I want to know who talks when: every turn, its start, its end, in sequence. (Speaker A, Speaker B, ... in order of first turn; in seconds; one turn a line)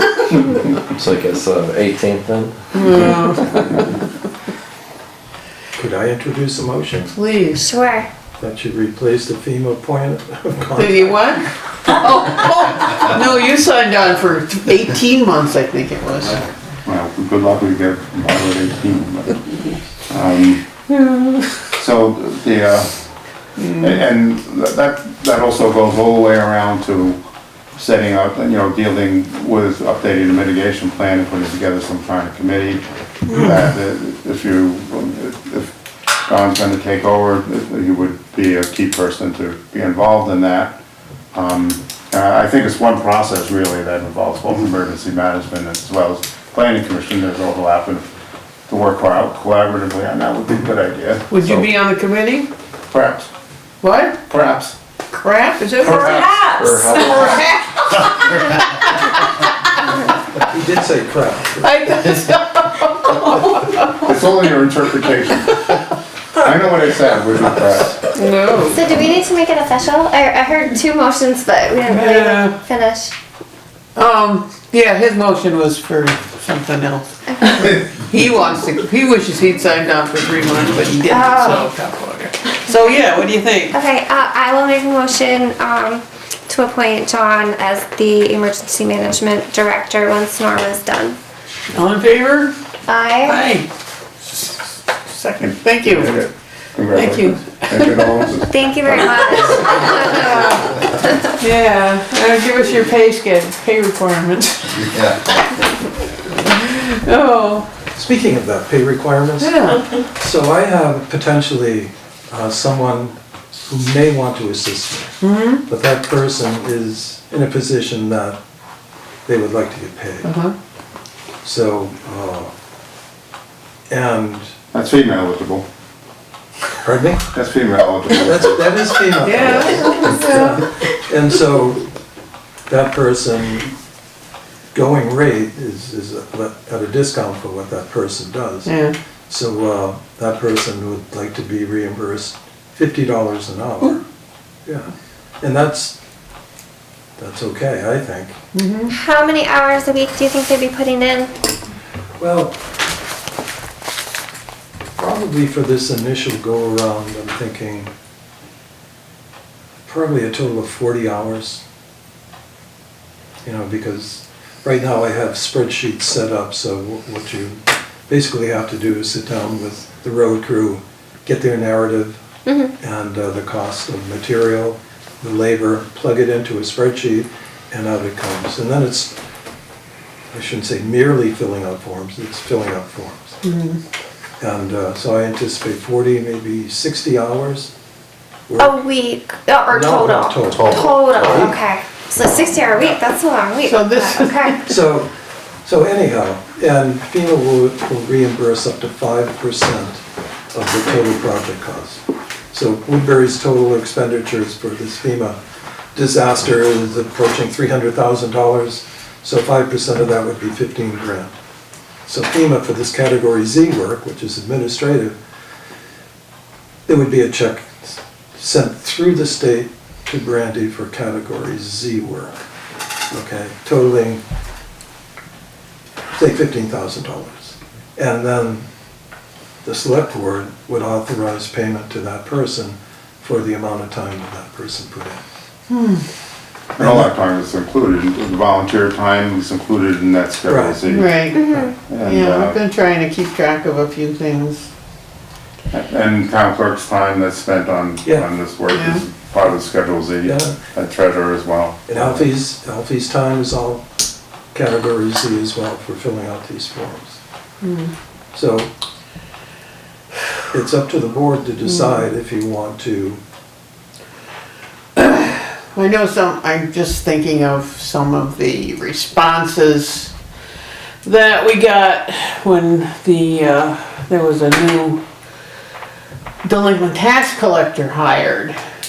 Speaker A: 0.3-0.6
Speaker B: 0.9-3.1
Speaker C: 2.7-3.9
Speaker D: 5.8-7.1
Speaker C: 7.1-7.7
Speaker E: 7.5-8.1
Speaker D: 8.4-11.4
Speaker C: 10.8-16.4
Speaker A: 16.8-20.6
Speaker C: 20.9-21.5
Speaker A: 21.7-22.9
Speaker C: 23.6-24.0
Speaker A: 23.8-27.2
Speaker A: 27.8-35.7
Speaker A: 36.2-40.8
Speaker A: 41.3-48.1
Speaker A: 48.7-51.6
Speaker C: 51.3-52.5
Speaker A: 52.9-53.3
Speaker C: 53.8-54.2
Speaker A: 54.3-54.7
Speaker C: 55.2-60.1
Speaker A: 55.8-56.6
Speaker B: 56.5-57.4
Speaker D: 60.4-61.7
Speaker C: 61.6-64.1
Speaker A: 64.0-65.7
Speaker A: 66.3-68.0
Speaker C: 68.1-68.8
Speaker E: 68.7-73.1
Speaker C: 71.9-72.6
Speaker C: 74.0-83.8
Speaker E: 81.1-81.7
Speaker E: 83.7-91.2
Speaker C: 91.7-92.5
Speaker E: 92.9-93.4
Speaker C: 93.2-93.7
Speaker C: 94.3-96.3
Speaker A: 95.8-99.2
Speaker C: 96.9-98.2
Speaker E: 98.5-100.4
Speaker C: 99.7-105.0
Speaker C: 106.3-107.7
Speaker D: 107.9-118.4
Speaker C: 109.4-109.9
Speaker C: 115.2-115.6
Speaker D: 119.2-120.3
Speaker C: 120.2-120.5
Speaker D: 121.4-122.5
Speaker D: 123.9-124.5
Speaker A: 124.7-125.7
Speaker D: 126.8-127.3
Speaker A: 127.3-128.6
Speaker D: 128.1-131.9
Speaker C: 129.2-130.6
Speaker D: 132.7-133.8
Speaker D: 134.7-138.7
Speaker C: 138.6-139.0
Speaker D: 139.3-144.0
Speaker D: 145.4-145.9
Speaker D: 147.2-148.3
Speaker C: 148.5-148.9
Speaker E: 148.9-151.3
Speaker D: 152.2-152.6
Speaker D: 155.0-157.9
Speaker D: 159.8-161.6
Speaker D: 163.4-172.2
Speaker E: 172.4-172.7
Speaker D: 172.8-179.1
Speaker D: 180.3-183.4
Speaker C: 183.4-183.8
Speaker D: 184.4-187.7
Speaker D: 188.5-188.8
Speaker E: 188.6-194.6
Speaker D: 189.7-191.6
Speaker C: 193.6-194.6
Speaker D: 194.7-195.1
Speaker D: 195.6-200.0
Speaker D: 200.5-202.0
Speaker D: 202.5-205.4
Speaker D: 205.9-211.3
Speaker D: 212.1-215.2
Speaker D: 216.9-222.4
Speaker D: 223.1-224.2
Speaker D: 226.2-228.7
Speaker D: 229.6-235.2
Speaker C: 235.7-236.0
Speaker A: 236.8-242.6
Speaker D: 236.8-237.1
Speaker D: 240.4-240.8
Speaker C: 240.9-244.7
Speaker E: 241.3-241.7
Speaker A: 245.7-252.3
Speaker C: 248.7-249.0
Speaker D: 250.2-250.6
Speaker D: 251.9-253.8
Speaker D: 254.5-257.2
Speaker C: 257.6-257.9
Speaker D: 258.3-258.7
Speaker D: 260.5-263.2
Speaker C: 261.7-262.0
Speaker C: 264.9-270.1
Speaker C: 271.0-275.0
Speaker C: 276.4-278.6